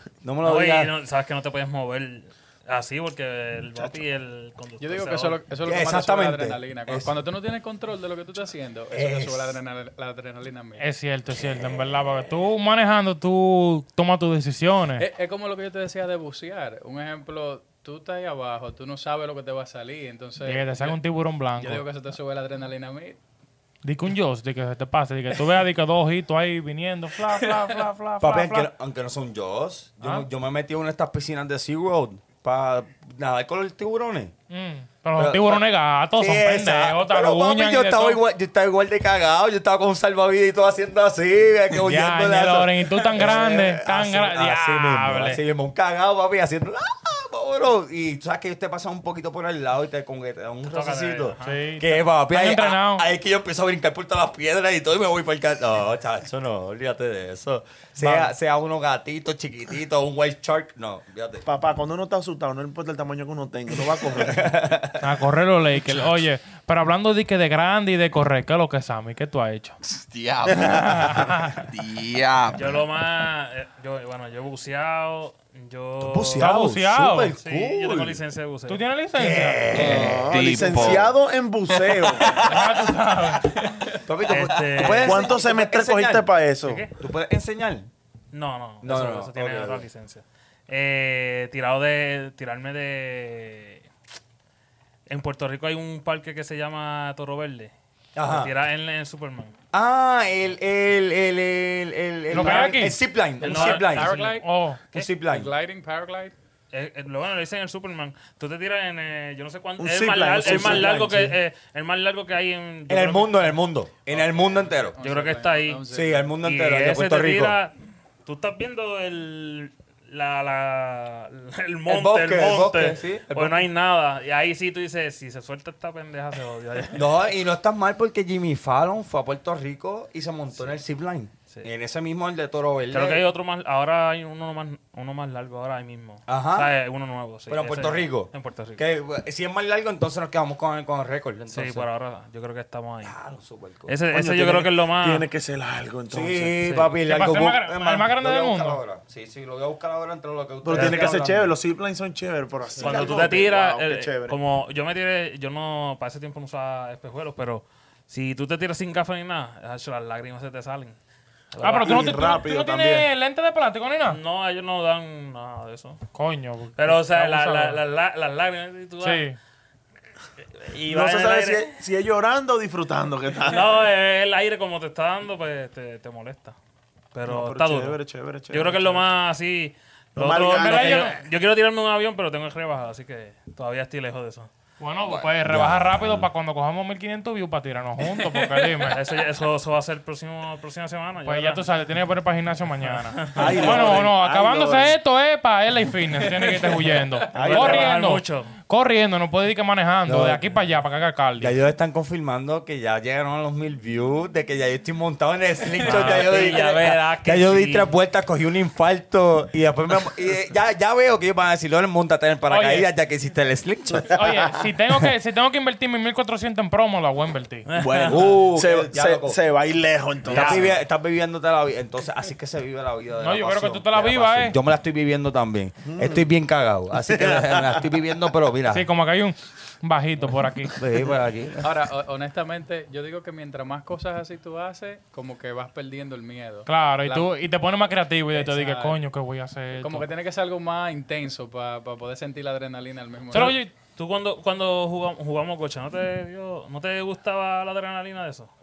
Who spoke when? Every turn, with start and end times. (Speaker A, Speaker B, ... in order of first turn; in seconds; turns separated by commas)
Speaker A: 0.2-0.9, Speaker B: 0.4-5.4, Speaker C: 4.8-10.9, Speaker A: 5.7-7.1, Speaker A: 8.9-9.6, Speaker D: 10.8-15.1, Speaker A: 11.3-12.3, Speaker C: 15.0-21.0, Speaker D: 20.4-21.9, Speaker C: 21.6-23.2, Speaker D: 23.8-28.7, Speaker C: 27.2-27.8, Speaker A: 28.2-34.3, Speaker D: 34.5-38.2, Speaker A: 35.2-35.6, Speaker A: 36.2-61.4, Speaker D: 41.8-45.4, Speaker B: 50.7-51.7, Speaker D: 51.4-53.1, Speaker D: 58.0-58.3, Speaker E: 61.5-64.5, Speaker A: 64.2-65.0, Speaker D: 65.0-69.8, Speaker F: 69.8-72.8, Speaker D: 70.5-71.7, Speaker B: 72.5-76.5, Speaker A: 76.0-78.2, Speaker D: 76.4-77.4, Speaker B: 77.4-78.8, Speaker D: 78.7-79.8, Speaker A: 79.2-81.0, Speaker F: 79.7-81.1, Speaker E: 79.8-82.4, Speaker F: 81.7-82.9, Speaker D: 82.4-83.9, Speaker A: 84.0-86.3, Speaker B: 84.2-85.4, Speaker E: 85.0-86.9, Speaker B: 86.6-86.9, Speaker A: 87.0-87.9, Speaker B: 88.3-93.9, Speaker A: 88.8-89.9, Speaker B: 95.1-97.7, Speaker A: 98.2-98.5, Speaker B: 98.2-99.5, Speaker A: 99.7-104.2, Speaker D: 102.3-103.0, Speaker B: 103.4-104.2, Speaker C: 103.4-106.3, Speaker D: 104.1-104.8, Speaker A: 104.9-105.5, Speaker B: 106.7-113.4, Speaker E: 109.8-111.0, Speaker A: 110.4-111.3, Speaker A: 112.9-115.0, Speaker C: 114.1-116.3, Speaker B: 115.0-115.9, Speaker A: 115.9-117.6, Speaker B: 116.4-127.1, Speaker A: 121.9-123.7, Speaker A: 126.9-133.2, Speaker B: 132.9-138.8, Speaker A: 136.3-136.7, Speaker A: 137.5-141.9, Speaker B: 141.5-143.2, Speaker A: 143.0-144.0, Speaker B: 143.9-145.3, Speaker E: 144.1-146.6, Speaker A: 146.1-151.5, Speaker B: 146.6-146.9, Speaker D: 147.0-148.8, Speaker E: 150.6-154.4, Speaker B: 150.8-151.1, Speaker B: 152.8-161.0, Speaker B: 161.5-162.2, Speaker D: 161.6-164.2, Speaker E: 161.7-163.1, Speaker B: 164.1-166.0, Speaker D: 166.1-167.8, Speaker B: 166.8-169.3, Speaker D: 169.0-169.4, Speaker B: 170.4-171.8, Speaker E: 170.9-173.7, Speaker B: 173.4-176.6, Speaker B: 177.1-178.0, Speaker E: 177.3-179.1, Speaker B: 178.5-184.5, Speaker E: 180.2-181.1, Speaker D: 180.5-181.2, Speaker D: 184.8-189.0, Speaker F: 185.1-185.3, Speaker A: 185.4-186.3, Speaker C: 188.2-188.9, Speaker B: 188.9-191.7, Speaker D: 191.2-201.6, Speaker B: 192.9-194.0, Speaker E: 193.3-194.9, Speaker C: 196.2-197.5, Speaker E: 197.3-197.9, Speaker B: 197.4-198.5, Speaker A: 200.1-200.4, Speaker A: 201.4-214.2, Speaker D: 205.8-206.3, Speaker B: 205.8-207.9, Speaker D: 212.5-212.9, Speaker D: 214.1-217.7, Speaker B: 217.7-218.3, Speaker E: 217.8-220.7, Speaker A: 218.1-219.4, Speaker A: 220.3-228.9, Speaker D: 220.3-220.7, Speaker D: 223.2-224.6, Speaker E: 225.8-226.2, Speaker E: 227.1-227.8, Speaker D: 228.7-230.8, Speaker A: 230.7-231.7, Speaker C: 231.6-237.3, Speaker D: 236.7-240.1, Speaker C: 238.3-239.0, Speaker C: 239.8-243.6, Speaker D: 243.3-243.7, Speaker B: 243.3-248.5